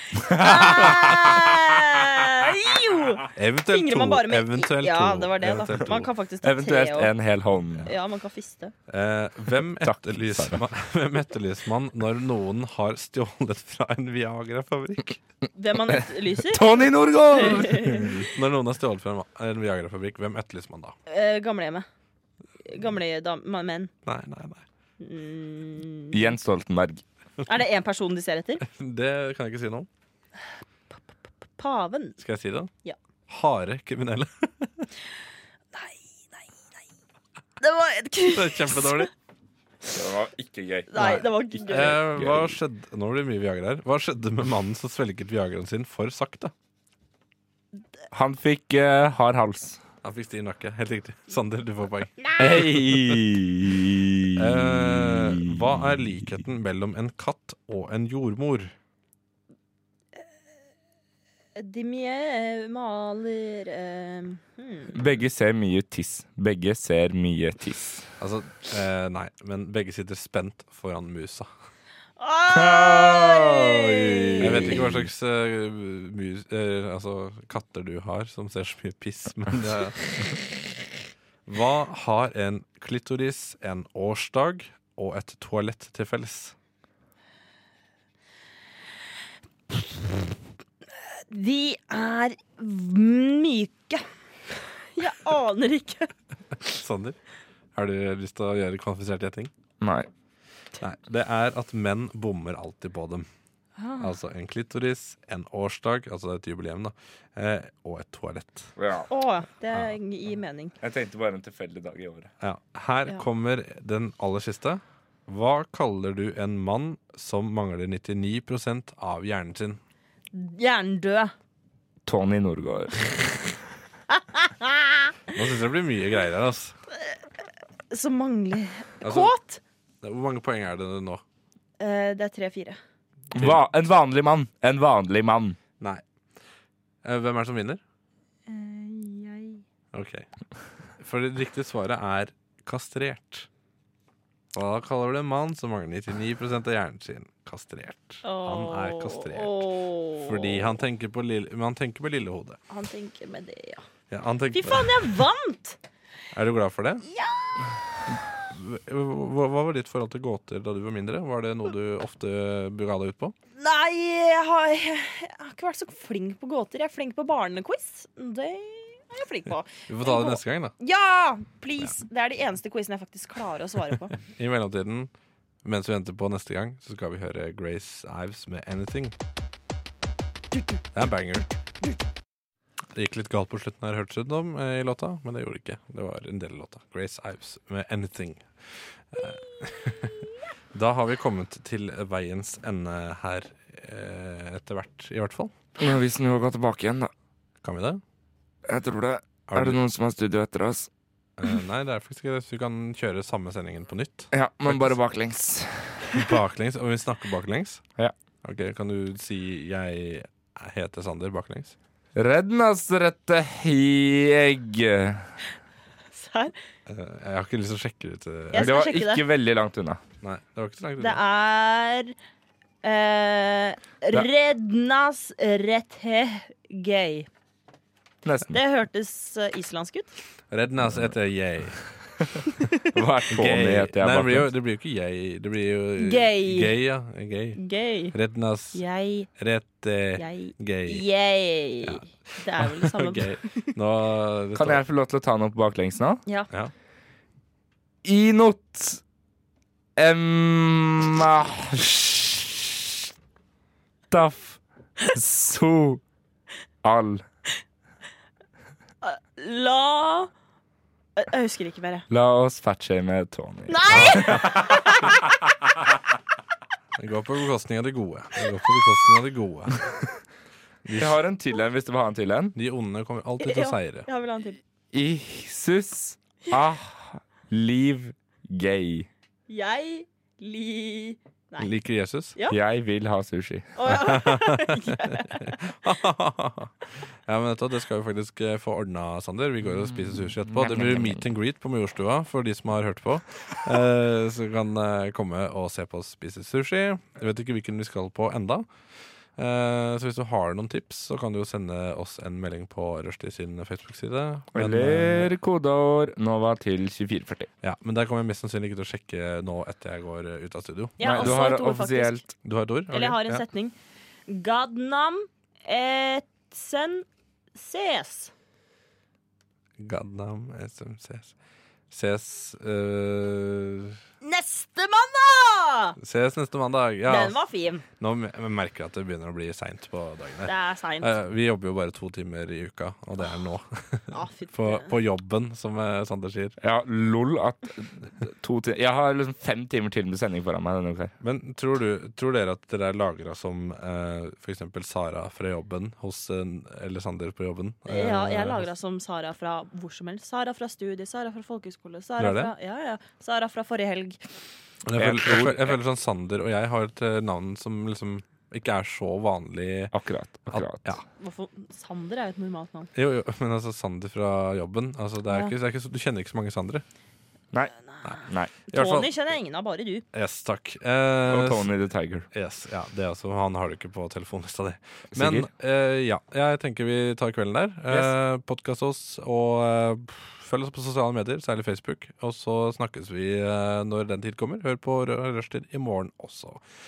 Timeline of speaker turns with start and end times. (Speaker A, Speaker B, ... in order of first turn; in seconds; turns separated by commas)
Speaker A: 0.2-7.1, Speaker B: 0.3-1.4, Speaker C: 3.3-6.1, Speaker B: 6.4-7.9, Speaker A: 7.8-8.7, Speaker C: 8.9-15.2, Speaker B: 9.8-10.6, Speaker A: 15.5-16.8, Speaker B: 16.5-18.3, Speaker A: 17.3-18.2, Speaker C: 18.3-21.0, Speaker A: 21.1-21.9, Speaker A: 22.6-23.9, Speaker C: 24.0-24.6, Speaker A: 25.0-26.3, Speaker B: 26.1-27.0, Speaker A: 27.4-28.6, Speaker C: 28.6-29.9, Speaker A: 31.6-32.2, Speaker C: 32.2-32.7, Speaker C: 33.3-34.9, Speaker A: 35.7-36.4, Speaker A: 37.6-39.1, Speaker C: 38.3-39.1, Speaker B: 39.9-42.5, Speaker A: 40.9-42.0, Speaker C: 41.0-46.5, Speaker B: 48.1-49.8, Speaker C: 50.0-53.2, Speaker B: 52.4-56.1, Speaker C: 54.4-58.7, Speaker A: 61.5-65.0, Speaker B: 64.9-68.0, Speaker C: 68.2-71.5, Speaker A: 72.2-74.7, Speaker B: 72.5-75.0, Speaker C: 74.4-80.0, Speaker C: 81.5-86.5, Speaker A: 91.3-94.0, Speaker A: 94.9-96.1, Speaker C: 96.7-97.2, Speaker C: 97.7-99.5, Speaker B: 99.8-100.1, Speaker C: 100.8-103.3, Speaker A: 103.8-104.1, Speaker C: 104.0-108.7, Speaker B: 108.8-109.1, Speaker A: 109.1-110.7, Speaker B: 110.8-112.3, Speaker C: 112.4-119.8, Speaker A: 120.3-121.3, Speaker B: 122.0-123.1, Speaker A: 124.1-125.1, Speaker C: 125.3-126.8, Speaker A: 127.9-129.6, Speaker C: 129.0-129.3, Speaker C: 130.0-131.2, Speaker A: 131.8-132.8, Speaker C: 133.3-133.6, Speaker B: 133.3-135.6, Speaker C: 137.0-137.8, Speaker A: 138.5-139.6, Speaker C: 139.9-140.3, Speaker C: 141.0-143.5, Speaker C: 144.5-152.6, Speaker A: 148.2-150.7, Speaker A: 152.7-153.9, Speaker C: 154.1-155.2, Speaker A: 154.5-155.8, Speaker C: 156.3-157.1, Speaker A: 157.1-157.6, Speaker C: 158.1-163.3, Speaker A: 163.6-174.2, Speaker C: 169.9-170.7, Speaker C: 174.1-175.1, Speaker C: 175.6-179.1, Speaker C: 180.9-181.6, Speaker C: 182.9-190.1, Speaker C: 190.7-195.5, Speaker B: 195.8-197.1, Speaker C: 197.6-198.0, Speaker B: 198.7-200.9, Speaker C: 199.5-199.8, Speaker C: 201.4-205.0, Speaker B: 204.3-206.1, Speaker C: 206.1-207.8, Speaker C: 208.4-211.8, Speaker B: 212.2-215.3, Speaker A: 216.1-216.5, Speaker C: 216.9-218.7, Speaker A: 218.5-219.2, Speaker B: 218.6-220.0, Speaker C: 220.2-221.2, Speaker A: 221.0-222.1, Speaker A: 222.8-227.3, Speaker B: 228.2-228.6, Speaker A: 228.5-230.1, Speaker C: 230.5-231.8, Speaker B: 232.9-234.5, Speaker C: 233.3-237.6, Speaker A: 236.0-236.8, Speaker A: 237.6-238.1, Speaker C: 238.1-238.8, Speaker A: 238.7-239.3, Speaker C: 239.3-241.1, Speaker A: 240.2-243.7, Speaker C: 241.8-244.8, Speaker B: 244.5-246.2, Speaker B: 248.0-249.0, Speaker B: 250.0-253.1, Speaker B: 254.1-256.0, Speaker B: 256.8-257.2, Speaker A: 259.0-260.3, Speaker A: 261.2-262.1, Speaker B: 262.1-265.0, Speaker A: 263.7-265.2, Speaker C: 263.9-264.7, Speaker C: 267.0-269.9, Speaker C: 270.8-271.2, Speaker B: 271.0-272.6, Speaker C: 272.6-274.1, Speaker A: 273.4-274.6, Speaker B: 274.9-279.1, Speaker A: 279.5-281.7, Speaker C: 281.6-282.4, Speaker B: 282.5-283.7, Speaker A: 283.8-285.5, Speaker C: 283.9-286.7, Speaker C: 287.2-298.7, Speaker B: 289.9-291.2, Speaker C: 299.4-305.3, Speaker B: 304.5-307.5, Speaker C: 307.6-311.4, Speaker A: 311.0-312.2, Speaker B: 311.0-312.3, Speaker C: 312.4-313.4, Speaker A: 312.9-313.7, Speaker A: 314.3-318.3, Speaker C: 319.8-321.3, Speaker C: 321.9-324.0, Speaker A: 324.2-326.0, Speaker C: 326.0-327.4, Speaker A: 327.1-327.8, Speaker C: 328.0-336.6, Speaker A: 330.5-331.1, Speaker A: 334.1-334.9, Speaker B: 336.6-341.1, Speaker C: 341.2-348.7, Speaker A: 347.9-354.2, Speaker C: 352.2-352.5, Speaker C: 354.8-359.9, Speaker B: 355.0-355.8, Speaker B: 359.9-360.9, Speaker C: 360.5-361.0, Speaker A: 361.2-362.9, Speaker C: 362.9-366.8, Speaker A: 367.9-370.0, Speaker B: 368.2-369.1, Speaker C: 370.1-371.7, Speaker B: 371.3-372.3, Speaker C: 372.3-386.6, Speaker B: 375.1-375.5